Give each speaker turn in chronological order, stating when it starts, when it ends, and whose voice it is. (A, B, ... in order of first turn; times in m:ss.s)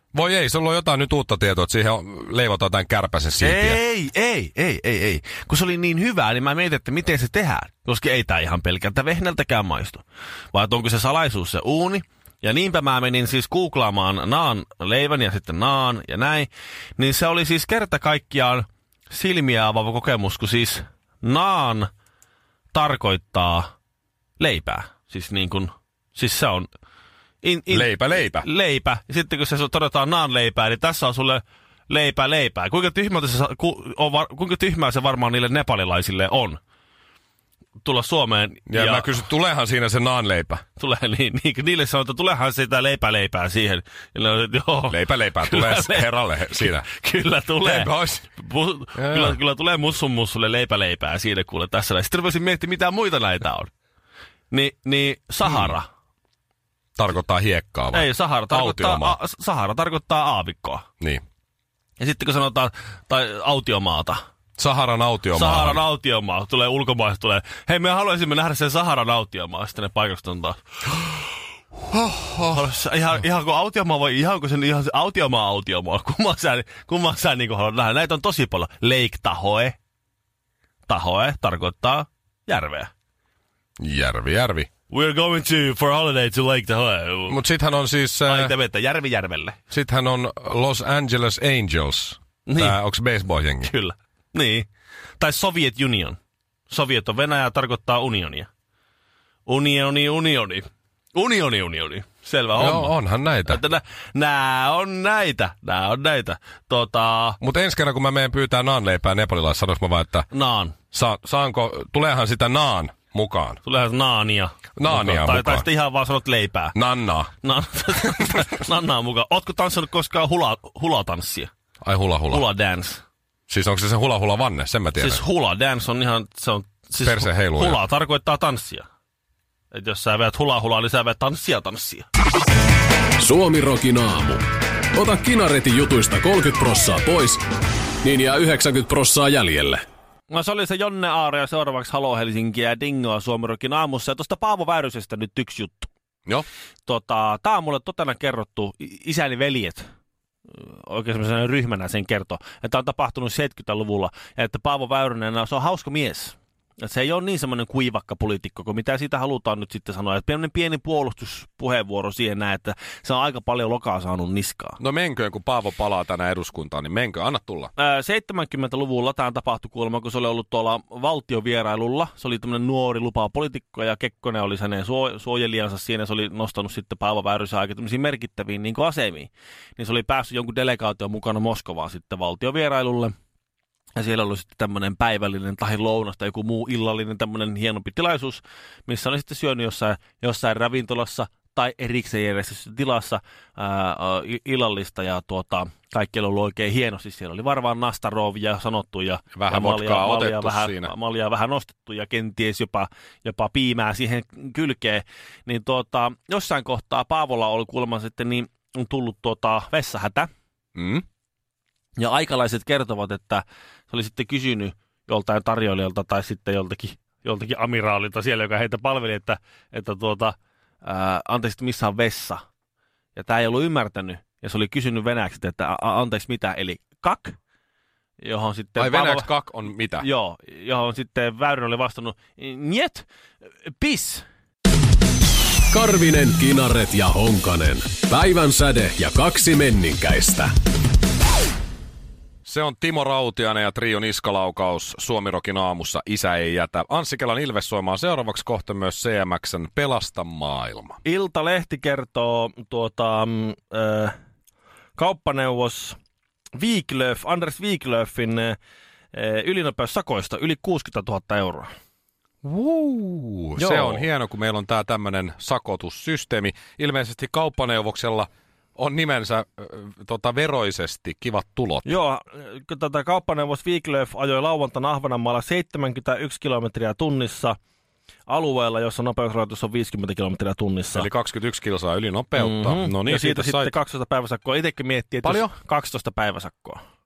0:00.1-0:03.8 A
0:03.4-0:21.9 B
0:22.7-0:23.7 B
0:24.4-0:26.7 B
0:27.4-0:36.6 B
0:27.7-0:28.5 A
0:37.8-0:39.3 B
0:38.7-0:40.6 A
0:40.8-0:53.7 B
0:44.9-0:46.9 A
0:47.6-0:48.3 A
0:49.0-0:49.4 A
0:54.5-0:55.9 B
0:55.4-0:55.8 A
0:57.0-0:59.2 A
0:57.9-1:00.8 B
1:02.0-1:04.2 B
1:04.6-1:05.8 A
1:05.3-1:11.0 B
1:11.9-1:12.6 A
1:12.4-1:19.8 B
1:20.9-1:22.9 B
1:23.8-1:24.7 A
1:24.9-1:27.4 B
1:27.3-1:28.5 A
1:28.2-1:29.6 B
1:29.7-1:33.7 A
1:32.5-1:32.8 B
1:33.6-1:34.7 B
1:35.2-1:36.2 B
1:36.7-1:38.5 B
1:39.5-1:47.4 B
1:42.6-1:43.6 A
1:47.4-1:50.3 A
1:50.3-1:50.8 B
1:50.9-1:53.6 A
1:53.6-1:56.8 B
1:54.8-1:55.7 A
1:56.7-1:57.3 A
1:57.4-2:01.5 B
1:58.2-1:58.4 A
2:01.8-2:02.5 A
2:02.3-2:03.0 B
2:03.5-2:05.2 A
2:05.0-2:08.9 B
2:07.0-2:07.8 A
2:09.7-2:12.1 B
2:13.2-2:14.4 C
2:14.9-2:17.4 C
2:18.0-2:19.8 C
2:20.3-2:25.9 B
2:26.9-2:29.9 B
2:30.5-2:44.8 B
2:44.8-2:47.7 A
2:47.8-3:03.1 B
3:04.0-3:30.3 B
3:19.4-3:20.9 A
3:30.8-3:31.0 A
3:32.0-3:42.4 B
3:43.2-3:47.4 B
3:48.2-3:49.3 B
3:48.8-3:50.1 A
3:50.0-3:53.1 B
3:53.7-3:54.2 B
3:55.7-4:00.5 C
4:02.5-4:11.0 A
4:11.0-4:14.2 B
4:15.0-4:16.0 B
4:16.6-4:18.6 B
4:19.1-4:21.7 B
4:22.4-4:31.9 A
4:23.6-4:24.1 B
4:31.8-4:37.6 B
4:38.3-4:41.1 B
4:41.0-4:43.7 A
4:42.4-4:46.8 B
4:45.2-4:45.5 A